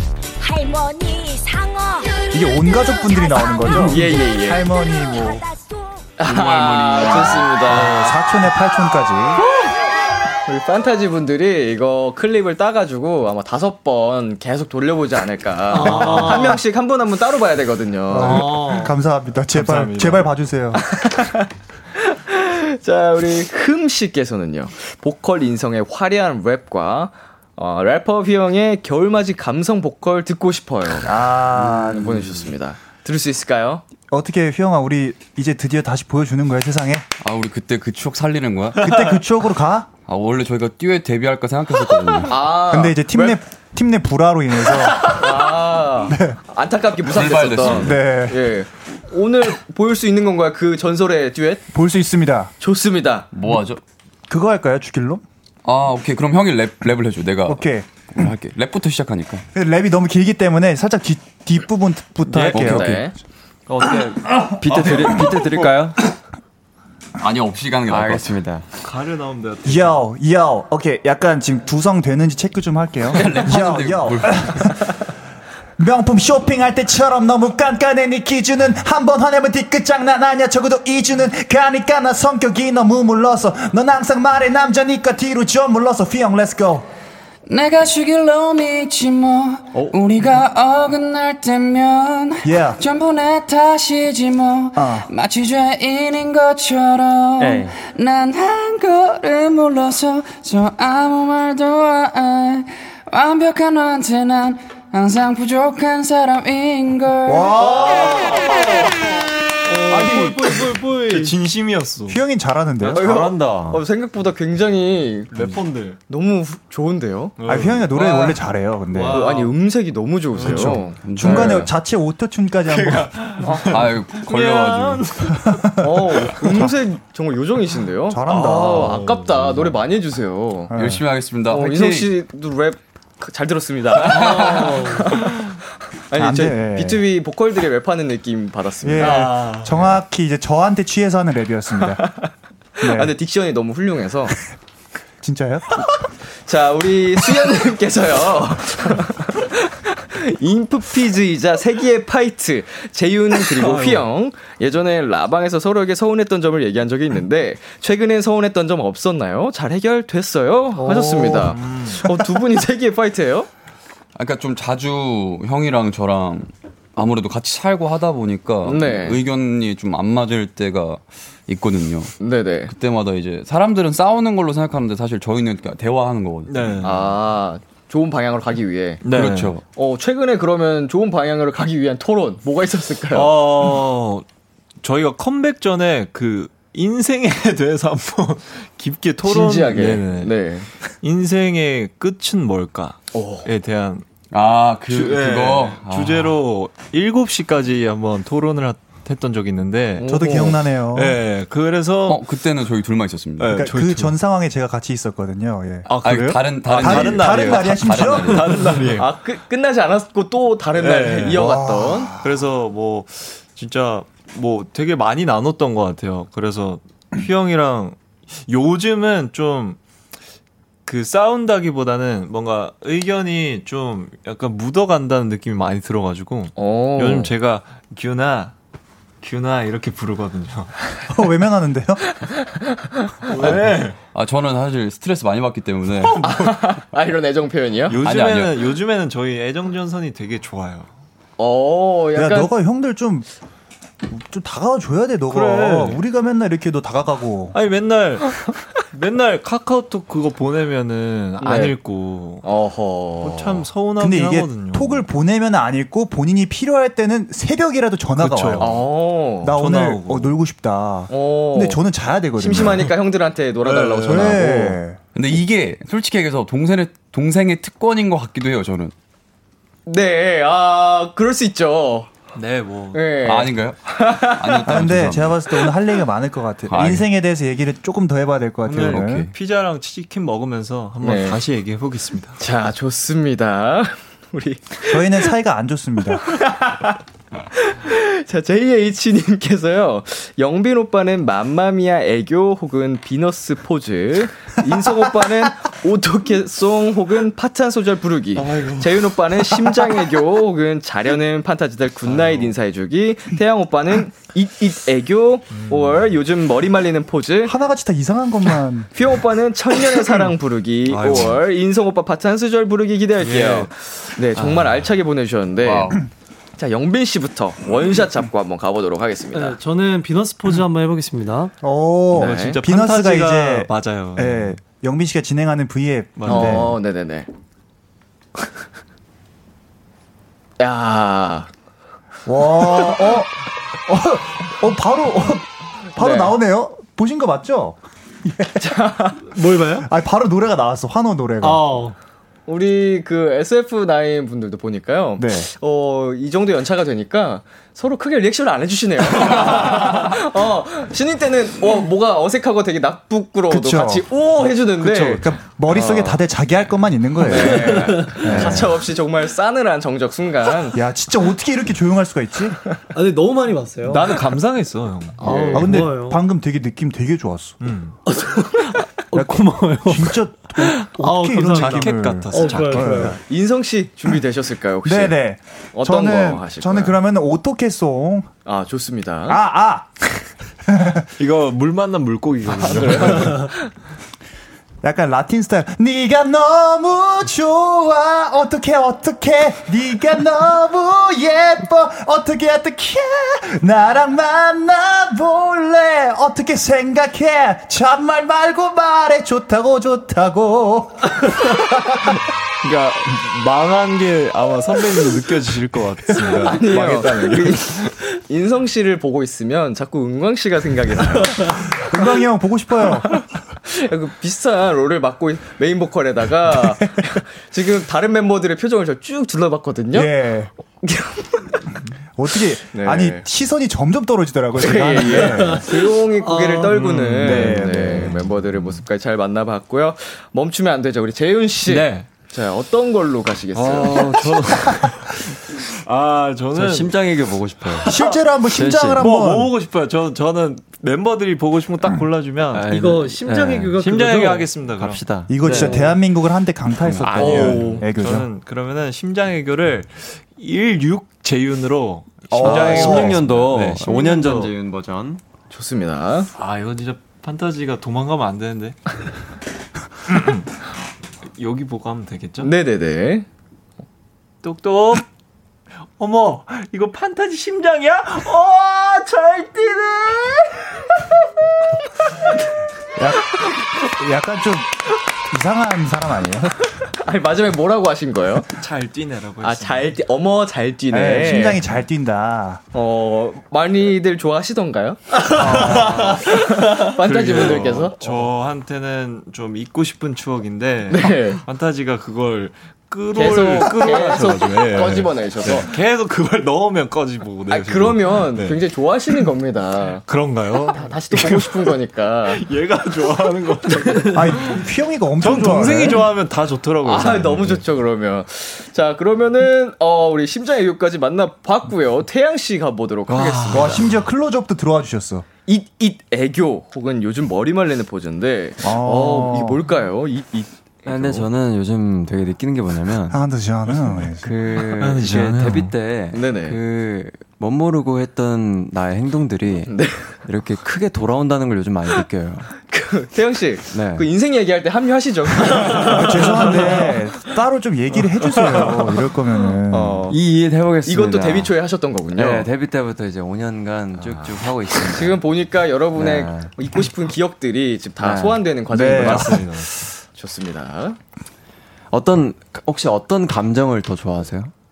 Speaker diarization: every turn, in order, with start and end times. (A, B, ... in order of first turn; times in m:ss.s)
0:00.4-0:06.1 A
0:02.3-0:05.4 B
0:03.7-0:04.6 C
0:06.2-0:08.2 C
0:06.2-0:07.6 D
0:07.6-0:09.4 B
0:10.5-0:18.5 C
0:15.7-0:16.6 E
0:18.1-0:20.8 B
0:18.2-0:19.0 E
0:19.5-0:20.3 F
0:20.8-0:33.8 C
0:31.0-0:32.4 B
0:34.1-0:37.0 B
0:37.2-0:39.0 D
0:38.8-0:39.9 B
0:40.0-0:42.4 D
0:42.2-0:43.4 C
0:42.7-0:45.4 B
0:45.0-0:51.6 C
0:46.0-0:46.4 B
0:47.1-0:48.0 D
0:47.7-0:48.4 B
0:51.7-0:52.5 B
0:52.6-0:53.3 C
0:53.3-0:53.8 D
0:54.3-0:55.2 B
0:55.6-0:59.4 D
0:57.5-0:57.9 B
0:59.6-1:03.1 B
1:02.5-1:03.1 D
1:02.5-1:03.1 C
1:03.7-1:06.1 G
1:07.2-1:08.4 D
1:07.9-1:08.6 G
1:08.8-1:10.0 F
1:09.6-1:14.9 B
1:13.1-1:14.8 D
1:15.8-1:26.9 B
1:27.5-1:47.5 H
1:32.4-1:32.8 B
1:34.8-1:35.1 B
1:37.4-1:37.8 G
1:47.3-1:48.3 B
1:47.8-1:48.7 F
1:49.7-1:51.4 E
1:49.9-1:50.5 B
1:50.0-1:52.2 F
1:52.1-1:53.1 B
1:52.8-1:53.8 G
1:52.9-1:57.4 C
1:55.3-1:56.0 F
1:57.4-1:58.4 F
1:57.5-1:59.3 B
1:59.0-1:59.3 F
1:59.0-1:59.5 E
1:59.1-2:01.7 C
2:00.4-2:00.8 F
2:00.4-2:03.5 B
2:01.0-2:01.7 D
2:02.7-2:05.4 F
2:03.4-2:03.7 C
2:03.7-2:05.3 D
2:05.5-2:06.7 B
2:05.8-2:10.7 C
2:08.1-2:09.1 B
2:10.7-2:11.0 B
2:10.7-2:12.1 D
2:11.5-2:15.6 C
2:14.1-2:14.7 D
2:14.1-2:15.1 E
2:16.1-2:19.4 C
2:16.1-2:17.0 B
2:18.8-2:22.1 B
2:19.0-2:20.0 F
2:22.0-2:24.4 C
2:22.8-2:23.1 B
2:25.2-2:25.8 B
2:26.4-2:43.5 C
2:33.4-2:34.0 F
2:41.2-2:42.1 F
2:44.2-2:52.1 D
2:48.6-2:49.2 C
2:52.2-2:52.7 C
2:52.7-2:56.8 D
2:56.5-2:57.1 F
2:56.8-2:59.0 C
2:59.0-2:59.6 F
2:59.1-2:59.6 D
2:59.8-3:03.4 C
3:03.1-3:04.2 F
3:04.8-3:10.3 F
3:09.2-3:10.7 C
3:11.0-3:14.0 F
3:13.1-3:13.5 C
3:14.3-3:16.4 D
3:14.9-3:22.2 F
3:20.0-3:20.6 C
3:20.0-3:21.2 B
3:22.1-3:23.7 D
3:23.4-3:24.2 F
3:23.5-3:25.9 B
3:25.9-3:29.1 F
3:26.0-3:28.6 D
3:26.8-3:28.5 B
3:29.0-3:32.1 C
3:30.8-3:31.5 F
3:31.3-3:32.3 B
3:32.2-3:39.8 F
3:40.9-3:48.6 F
3:46.6-3:47.3 C
3:49.2-3:50.8 F
3:51.1-3:52.0 B
3:52.8-3:53.4 C
3:53.3-3:54.0 F
3:54.1-3:56.3 D
3:56.2-3:58.0 C
3:57.9-4:00.9 F
3:58.0-3:58.7 D
4:01.4-4:02.5 C
4:02.2-4:03.3 B
4:04.0-4:07.6 B
4:05.3-4:06.0 F
4:07.5-4:12.4 F
4:11.4-4:11.8 C
4:12.4-4:13.7 C
4:13.2-4:15.1 F
4:14.0-4:18.8 B
4:18.2-4:18.8 F
4:18.6-4:19.5 C
4:19.4-4:22.9 B
4:19.5-4:20.3 F
4:21.1-4:21.8 C
4:22.4-4:24.8 C
4:23.7-4:25.0 B
4:25.1-4:28.9 D
4:29.9-4:32.1 C
4:32.3-4:33.0 F
4:32.9-4:35.7 C
4:33.2-4:35.4 D
4:34.7-4:39.3 B
4:36.7-4:37.1 D
4:38.7-4:42.4 F
4:38.8-4:39.3 D
4:41.0-4:41.4 C
4:42.4-4:45.4 C
4:44.9-4:46.3 B
4:46.2-4:47.0 C
4:47.5-5:07.6 C
4:58.4-4:59.6 F
5:02.1-5:02.6 F
5:05.5-5:06.1 F
5:07.4-5:08.9 B
5:08.9-5:16.0 C
5:10.9-5:11.4 F
5:13.2-5:13.7 F
5:15.6-5:16.0 D
5:16.6-5:19.6 C
5:19.3-5:21.5 E
5:21.6-5:26.7 B
5:22.1-5:24.6 F
5:22.1-5:22.6 C
5:26.2-5:26.7 F
5:26.3-5:27.3 C
5:30.6-5:31.5 C
5:32.3-5:38.8 B
5:36.0-5:36.4 C
5:38.4-5:39.4 C
5:39.3-5:39.9 E
5:39.7-5:41.8 B
5:41.4-5:42.0 E
5:42.5-5:56.2 C
5:45.2-5:45.5 B
5:53.5-5:54.1 B
5:54.7-5:58.9 B
5:57.2-6:00.8 C
5:57.7-5:58.2 E
6:00.7-6:02.6 B
6:02.9-6:04.2 E
6:03.8-6:05.3 F
6:05.2-6:05.8 C
6:05.2-6:06.2 E
6:05.5-6:07.6 B
6:07.6-6:08.0 F
6:08.1-6:13.2 E
6:09.1-6:13.2 B
6:11.5-6:13.0 F
6:13.0-6:15.2 C
6:14.8-6:18.3 B
6:15.8-6:17.0 C
6:18.5-6:19.4 C
6:19.3-6:20.0 B
6:20.7-6:21.0 B
6:21.2-6:23.5 F
6:22.5-6:23.7 C
6:24.8-6:41.6 B
6:42.6-6:47.9 F
6:46.4-6:51.9 C
6:51.7-6:53.1 B
6:53.1-7:00.1 C
6:59.9-7:00.5 B
7:00.8-7:01.8 C
7:02.2-7:05.7 B
7:02.7-7:03.2 C
7:04.6-7:14.1 C
7:05.3-7:06.8 E
7:06.7-7:08.1 F
7:07.2-7:08.2 B
7:11.7-7:12.1 F
7:13.6-7:14.5 G
7:13.6-7:17.0 F
7:16.5-7:19.0 G
7:17.7-7:18.2 F
7:17.8-7:19.5 B
7:19.0-7:22.7 F
7:22.5-7:23.7 G
7:22.7-7:24.5 E
7:23.5-7:25.0 F
7:24.7-7:25.8 G
7:25.3-7:28.3 B
7:25.4-7:25.9 E
7:26.9-7:27.8 G
7:27.0-7:34.5 F
7:32.3-7:33.2 B
7:32.4-7:35.2 G
7:35.5-7:36.3 C
7:36.4-7:38.8 F
7:40.1-7:40.5 F
7:41.4-7:42.5 F
7:42.4-7:43.3 C
7:44.4-7:45.1 F
7:46.0-7:50.8 F
7:53.0-7:54.8 B
7:55.3-7:56.5 B
7:57.0-7:58.5 C
7:58.5-7:59.9 F
7:59.4-8:01.6 C
8:00.9-8:02.6 B
8:02.7-8:08.0 C
8:05.3-8:06.2 B
8:05.4-8:18.6 F
8:10.9-8:11.4 C
8:13.1-8:15.7 C
8:17.5-8:20.0 C
8:20.0-8:24.6 F
8:20.7-8:22.4 C
8:24.1-8:26.1 B
8:25.2-8:27.6 F
8:26.8-8:33.9 C
8:33.1-8:33.8 F
8:33.5-8:35.3 B
8:35.5-8:41.3 C
8:38.6-8:39.6 B
8:40.9-8:43.2 G
8:43.1-8:44.3 B
8:44.2-8:52.5 G
8:44.6-8:45.8 F
8:46.1-8:46.6 C
8:49.7-8:50.1 C
8:52.6-8:56.8 C
8:53.7-8:54.1 G
8:55.9-9:00.0 B
8:59.7-9:00.2 C
9:00.1-9:01.6 G
9:00.8-9:02.5 C
9:02.2-9:05.2 G
9:04.0-9:04.3 C
9:04.9-9:09.4 C
9:06.0-9:06.5 G
9:08.0-9:08.4 G
9:08.7-9:09.6 B
9:08.8-9:09.7 F
9:10.2-9:11.0 C
9:11.9-9:14.5 G